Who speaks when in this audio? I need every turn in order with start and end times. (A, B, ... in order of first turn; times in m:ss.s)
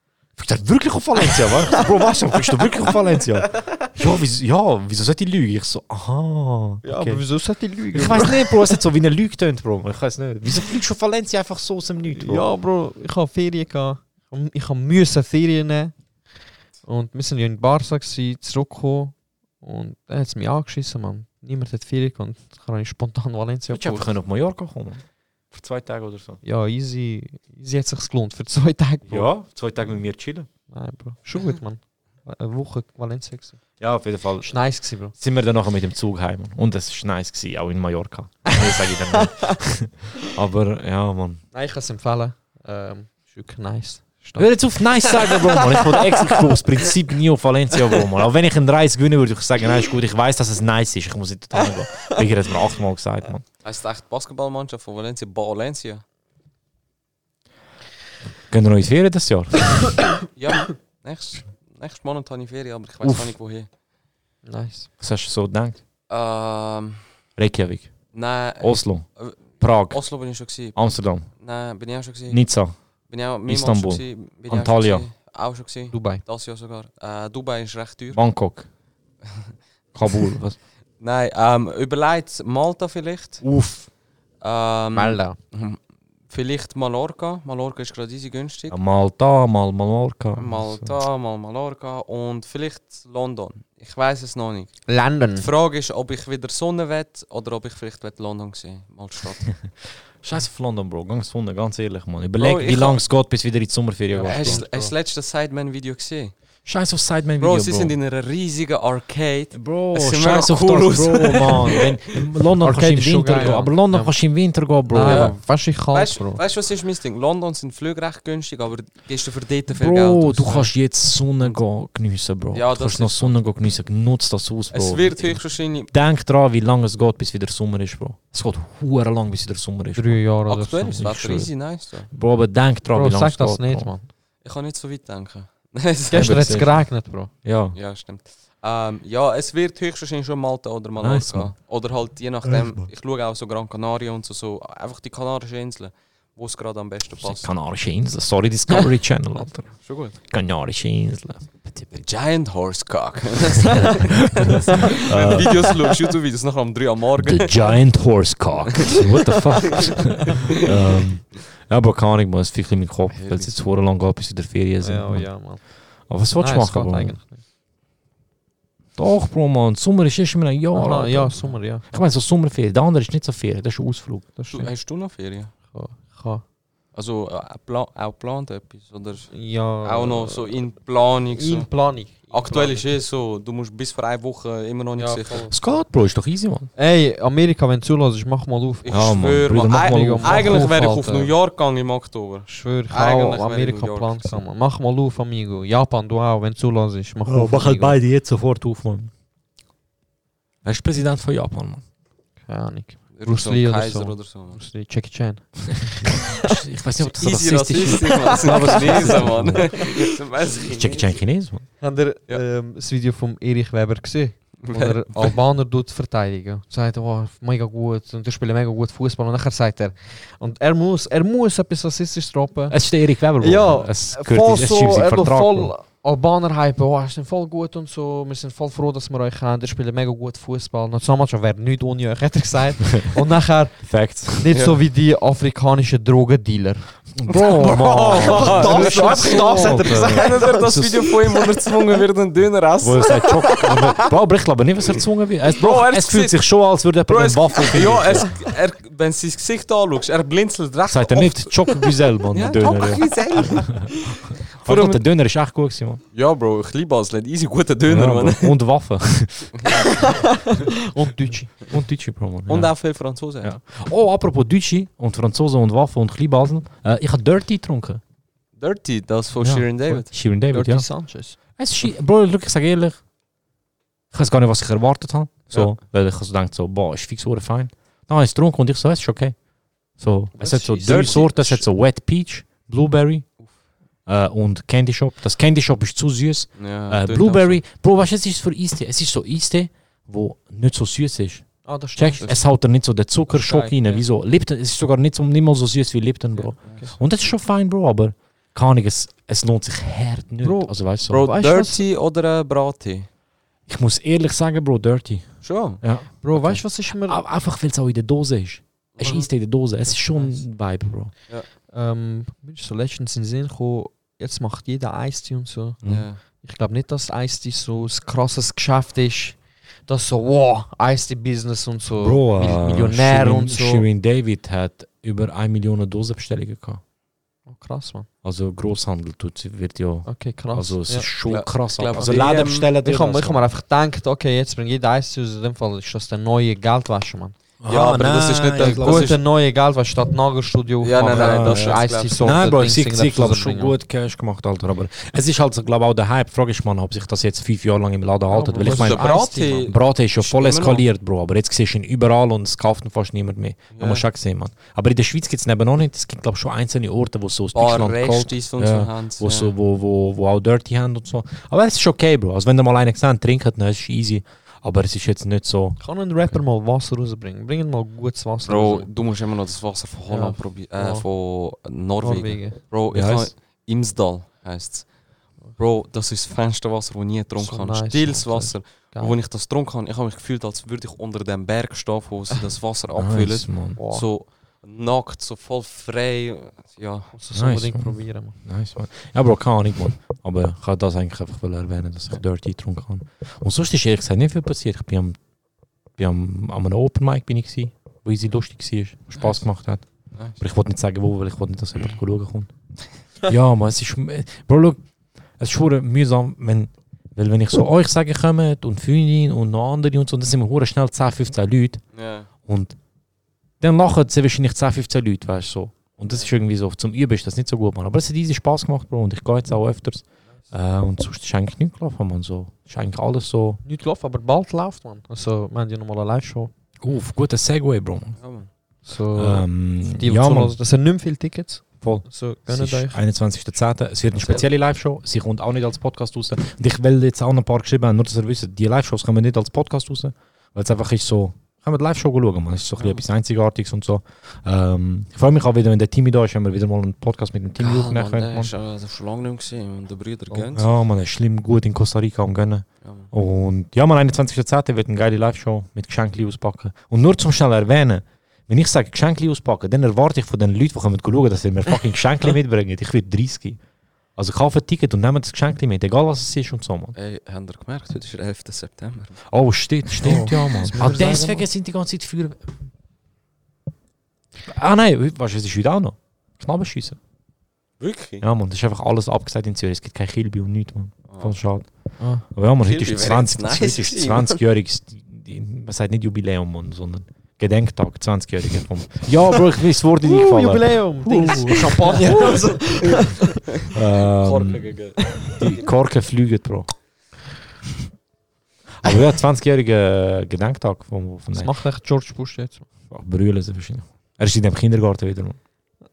0:00.4-0:07.2 A
0:06.8-0:08.8 B
0:07.9-0:12.5 A
0:12.2-0:16.0 B
0:16.8-0:24.1 B
0:23.7-0:26.4 A
0:26.4-0:29.3 B
0:29.1-0:30.5 A
0:30.7-0:33.6 B
0:33.8-0:41.4 A
0:34.4-0:35.1 B
0:39.2-0:39.5 B
0:41.5-0:44.5 B
0:44.4-0:53.4 A
0:45.1-0:46.1 B
0:53.6-0:56.0 C
0:58.5-1:00.0 A
1:00.4-1:03.7 C
1:03.0-1:03.3 A
1:04.5-1:04.9 B
1:05.0-1:05.8 A
1:06.1-1:07.0 C
1:07.4-1:07.9 A
1:08.1-1:12.4 C
1:08.6-1:09.1 A
1:09.6-1:10.0 A
1:10.8-1:11.3 A
1:12.3-1:12.7 A
1:13.1-1:18.2 C
1:13.5-1:15.1 A
1:15.9-1:16.2 B
1:18.1-1:18.7 A
1:20.0-1:20.6 A
1:21.0-1:23.4 C
1:23.4-1:23.9 A
1:24.4-1:28.8 C
1:24.9-1:25.4 B
1:28.7-1:30.9 A
1:30.4-1:34.8 C
1:34.9-1:35.5 B
1:35.4-1:39.5 C
1:40.2-1:44.6 A
1:42.4-1:43.0 C
1:44.1-1:44.9 B
1:44.2-1:46.4 C
1:46.6-1:48.0 A
1:47.4-1:52.2 C
1:49.5-1:55.3 A
1:52.6-1:54.1 B
1:54.9-1:56.4 B
1:55.1-2:00.7 C
1:59.7-2:10.2 A
2:02.5-2:03.4 C
2:04.7-2:05.9 C
2:10.0-2:11.4 B
2:10.5-2:12.1 C
2:11.0-2:11.5 A
2:12.1-2:13.9 A
2:12.9-2:14.1 B
2:14.4-2:16.6 C
2:16.1-2:17.3 B
2:16.1-2:16.9 A
2:17.4-2:17.8 A
2:17.7-2:27.5 C
2:21.0-2:21.5 A
2:22.4-2:22.9 A
2:27.2-2:29.7 A
2:29.8-2:30.2 C
2:30.2-2:31.8 A
2:31.9-2:37.7 C
2:33.6-2:35.9 A
2:37.2-2:45.3 A
2:39.7-2:39.9 C
2:43.1-2:43.6 C
2:44.8-2:45.6 B
2:46.1-2:47.2 A
2:46.4-2:47.4 B
2:49.0-2:54.3 A
2:50.7-2:51.9 B
2:54.4-2:54.7 B
2:54.5-2:55.5 C
2:55.7-2:56.4 B
2:56.9-3:05.5 C
2:59.3-3:00.6 B
3:01.3-3:02.9 B
3:05.0-3:05.8 B
3:05.5-3:06.7 A
3:06.8-3:08.9 B
3:08.8-3:14.4 C
3:08.9-3:10.9 A
3:09.8-3:11.3 B
3:12.5-3:18.0 B
3:17.3-3:19.1 A
3:20.6-3:21.8 A
3:22.5-3:26.6 B
3:23.2-3:24.6 C
3:25.9-3:29.9 A
3:27.0-3:31.2 C
3:28.5-3:29.3 B
3:30.6-3:31.7 A
3:31.8-3:42.8 B
3:34.6-3:35.4 C
3:42.7-3:45.7 A
3:43.4-4:00.8 B
3:53.8-3:54.6 A
3:54.5-3:54.8 C
3:57.2-4:01.1 A
3:57.6-4:03.5 C
4:02.8-4:08.4 A
4:05.5-4:06.4 C
4:07.1-4:15.0 C
4:10.9-4:16.0 A
4:16.1-4:18.6 C
4:17.9-4:19.7 A
4:20.0-4:21.5 B
4:21.7-4:22.8 A
4:22.5-4:23.5 C
4:23.4-4:28.0 A
4:28.6-4:30.1 C
4:29.4-4:30.9 A
4:30.5-4:31.4 B
4:31.6-4:33.0 A
4:34.1-4:39.4 A
4:40.0-4:43.3 A
4:40.4-4:41.2 B
4:40.8-4:41.7 C
4:44.1-5:01.2 A
4:46.6-4:47.6 C
4:51.6-4:52.3 B
4:53.3-4:54.0 B
4:56.6-4:56.9 C
5:00.4-5:01.8 B
5:01.1-5:03.1 C
5:03.7-5:11.1 A
5:05.4-5:05.8 C
5:06.2-5:07.2 B
5:09.0-5:09.3 C
5:11.7-5:15.8 B
5:15.8-5:16.2 C
5:16.4-5:23.9 B
5:22.0-5:26.8 A
5:27.5-5:28.1 B
5:28.2-5:33.4 A
5:30.1-5:31.1 B
5:31.3-5:32.7 C
5:32.0-5:37.4 B
5:37.6-5:39.2 A
5:37.7-5:39.2 C
5:38.6-5:43.7 B
5:40.8-5:42.4 C
5:41.0-6:05.8 A
5:48.3-5:49.7 B
5:48.6-5:50.8 C
5:53.7-5:54.0 C
5:57.5-5:59.5 C
6:05.8-6:08.9 B
6:08.4-6:14.9 C
6:10.1-6:11.0 B
6:12.0-6:12.6 B
6:12.9-6:13.3 A
6:15.6-6:27.1 C
6:17.4-6:19.2 B
6:22.9-6:23.8 A
6:23.8-6:24.0 B
6:27.1-6:28.4 B
6:27.3-6:35.2 A
6:36.0-6:39.9 A
6:40.4-6:42.5 A
6:43.2-6:44.8 A
6:45.4-6:51.8 A
6:52.0-6:52.3 C
6:52.5-6:52.8 A
6:53.6-7:03.6 A
7:03.6-7:06.5 B
7:06.8-7:08.2 A
7:08.2-7:08.5 C
7:08.8-7:13.0 B
7:09.1-7:10.6 A
7:11.8-7:28.5 A
7:14.2-7:14.4 B
7:27.6-7:30.7 C
7:30.5-7:43.6 A
7:32.8-7:33.1 C
7:44.2-7:47.0 A
7:47.0-7:49.2 C
7:49.3-7:52.5 A
7:50.0-7:51.4 B
7:50.7-7:51.4 C
7:54.4-7:57.0 A
7:57.8-7:58.2 C
7:58.2-8:01.7 A
8:01.1-8:01.3 C
8:02.0-8:02.2 B
8:02.2-8:12.4 A
8:02.6-8:04.4 C
8:10.0-8:13.5 B
8:12.2-8:13.0 C
8:13.6-8:15.5 C
8:13.7-8:14.8 A
8:15.3-8:16.7 A
8:18.8-8:21.5 A
8:21.4-8:22.6 B
8:22.9-8:25.4 A